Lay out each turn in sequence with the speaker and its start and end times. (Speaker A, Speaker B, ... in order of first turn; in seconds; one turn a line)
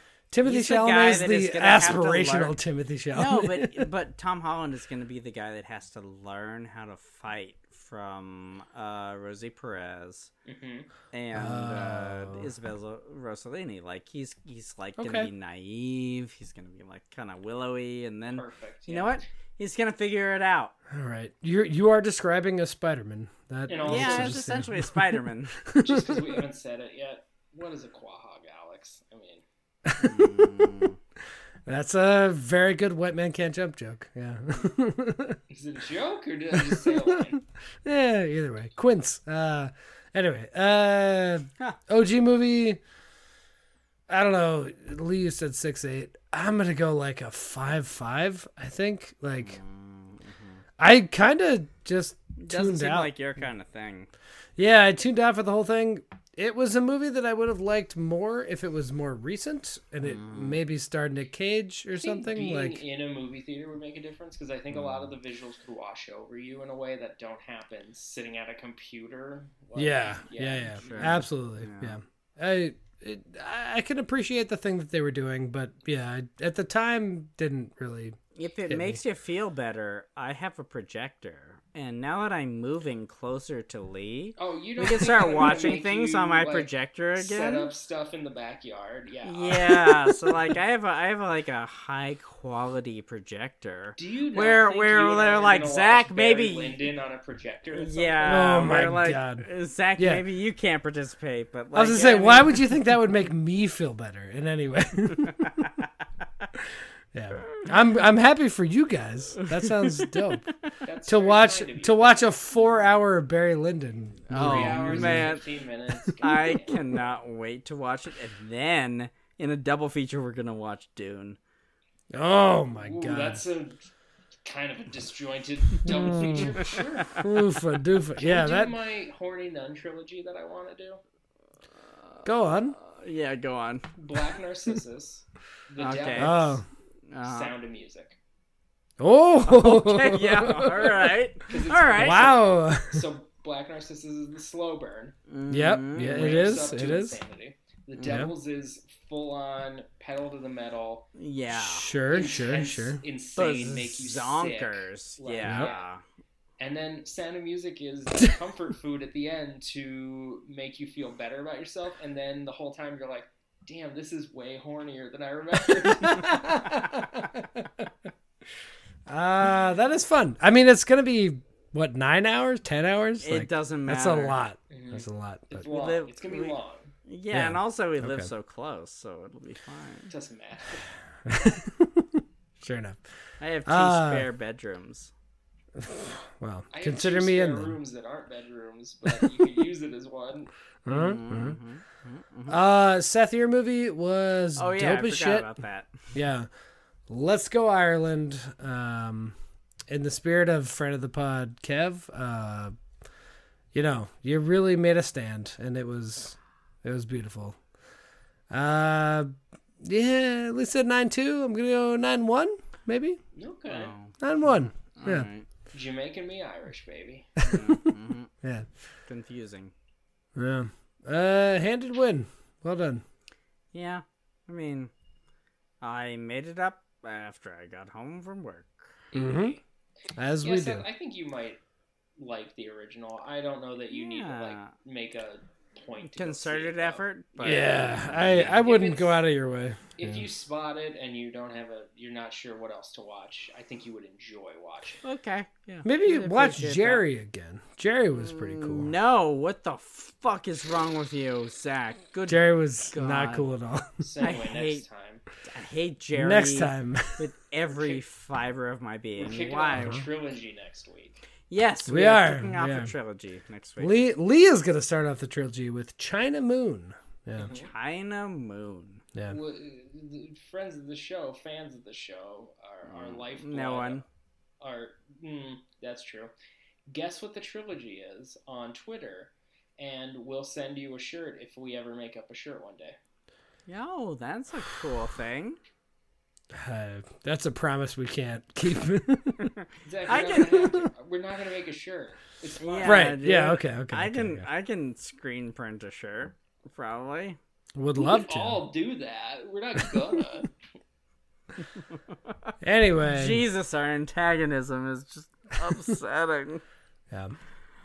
Speaker A: 0.3-3.9
Speaker B: 0.4-2.5
Speaker B: 3.1-10.3
Speaker C: 10.4-10.9
Speaker B: 11.1-20.7
Speaker A: 11.3-12.5
Speaker A: 15.0-15.3
Speaker C: 18.3-19.2
Speaker A: 20.9-26.4
Speaker C: 23.7-24.5
Speaker B: 23.8-25.6
Speaker C: 25.8-29.4
Speaker A: 29.8-30.8
Speaker B: 30.0-31.0
Speaker A: 31.6-35.4
Speaker C: 35.5-37.4
Speaker A: 36.5-42.8
Speaker A: 44.1-49.6
Speaker B: 49.4-50.6
Speaker A: 50.8-53.1
Speaker B: 52.4-54.1
Speaker A: 54.6-62.8
Speaker B: 60.0-60.6
Speaker C: 62.0-71.2
Speaker A: 69.8-79.0
Speaker B: 70.8-72.0
Speaker B: 78.3-87.7
Speaker C: 84.4-90.3
Speaker B: 89.2-96.8
Speaker C: 94.0-98.7
Speaker B: 97.7-102.6
Speaker A: 98.2-99.5
Speaker A: 100.0-100.2
Speaker A: 101.7-105.7
Speaker A: 106.5-110.4
Speaker B: 109.4-110.3
Speaker C: 110.8-112.3
Speaker A: 111.0-115.4
Speaker B: 114.3-115.5
Speaker C: 114.3-116.8
Speaker B: 116.2-121.4
Speaker A: 122.1-123.4
Speaker C: 122.8-123.9
Speaker C: 124.4-127.2
Speaker A: 125.8-128.8
Speaker B: 126.2-127.2
Speaker C: 128.2-131.0
Speaker B: 131.8-133.9
Speaker A: 132.2-132.8
Speaker C: 134.0-136.6
Speaker B: 135.8-136.4
Speaker A: 136.2-136.6
Speaker B: 137.1-137.5
Speaker C: 137.2-138.2
Speaker A: 139.0-141.1
Speaker B: 139.4-142.4
Speaker C: 141.5-145.1
Speaker A: 141.9-143.0
Speaker B: 145.3-146.6
Speaker A: 145.5-147.2
Speaker C: 146.0-151.1
Speaker B: 147.9-148.2
Speaker A: 148.1-148.3
Speaker B: 151.2-151.9
Speaker A: 151.5-153.0
Speaker C: 152.1-155.9
Speaker B: 153.3-156.0
Speaker C: 156.6-166.4
Speaker A: 165.6-167.9
Speaker A: 169.1-175.7
Speaker B: 173.2-174.4
Speaker C: 174.7-176.9
Speaker B: 175.7-180.1
Speaker A: 177.3-178.3
Speaker C: 180.1-180.9
Speaker A: 181.2-183.0
Speaker B: 183.4-185.1
Speaker A: 183.7-184.3
Speaker A: 185.8-187.7
Speaker C: 186.7-190.5
Speaker A: 189.1-189.3
Speaker A: 190.8-191.6
Speaker B: 190.9-192.6
Speaker A: 192.5-195.5
Speaker B: 194.6-196.1
Speaker A: 196.1-196.5
Speaker A: 197.1-199.3
Speaker A: 199.9-202.7
Speaker A: 203.7-207.6
Speaker A: 208.5-213.2
Speaker C: 213.3-213.9
Speaker B: 213.7-215.5
Speaker A: 214.2-215.3
Speaker C: 215.7-217.3
Speaker A: 217.4-218.7
Speaker B: 217.4-218.3
Speaker B: 219.1-219.7
Speaker A: 220.3-223.0
Speaker B: 223.7-224.9
Speaker B: 225.8-229.0
Speaker C: 229.1-229.6
Speaker A: 229.1-229.6
Speaker A: 230.2-230.8
Speaker C: 230.4-231.6
Speaker C: 232.2-239.2
Speaker B: 233.9-234.7
Speaker B: 236.0-238.7
Speaker A: 237.4-240.2
Speaker C: 240.0-245.0
Speaker B: 245.0-247.0
Speaker A: 245.8-248.9
Speaker B: 248.1-253.5
Speaker A: 252.3-254.0
Speaker C: 254.0-255.2
Speaker B: 254.2-254.8
Speaker B: 255.4-260.0
Speaker A: 256.1-257.3
Speaker C: 257.7-258.0
Speaker C: 259.2-261.2
Speaker A: 259.7-260.1
Speaker B: 261.5-264.0
Speaker A: 261.9-262.9
Speaker A: 263.8-267.5
Speaker C: 267.4-267.7
Speaker B: 267.4-269.0
Speaker C: 269.3-274.0
Speaker B: 272.9-274.0
Speaker C: 274.6-276.3
Speaker C: 276.9-282.9
Speaker B: 283.7-285.6
Speaker A: 286.5-289.5
Speaker B: 289.4-290.6
Speaker C: 289.8-293.1
Speaker A: 290.4-290.9
Speaker B: 292.6-297.4
Speaker A: 292.8-294.4
Speaker A: 297.7-298.6
Speaker C: 297.9-300.5
Speaker A: 302.6-303.4
Speaker B: 303.0-306.6
Speaker A: 307.1-307.4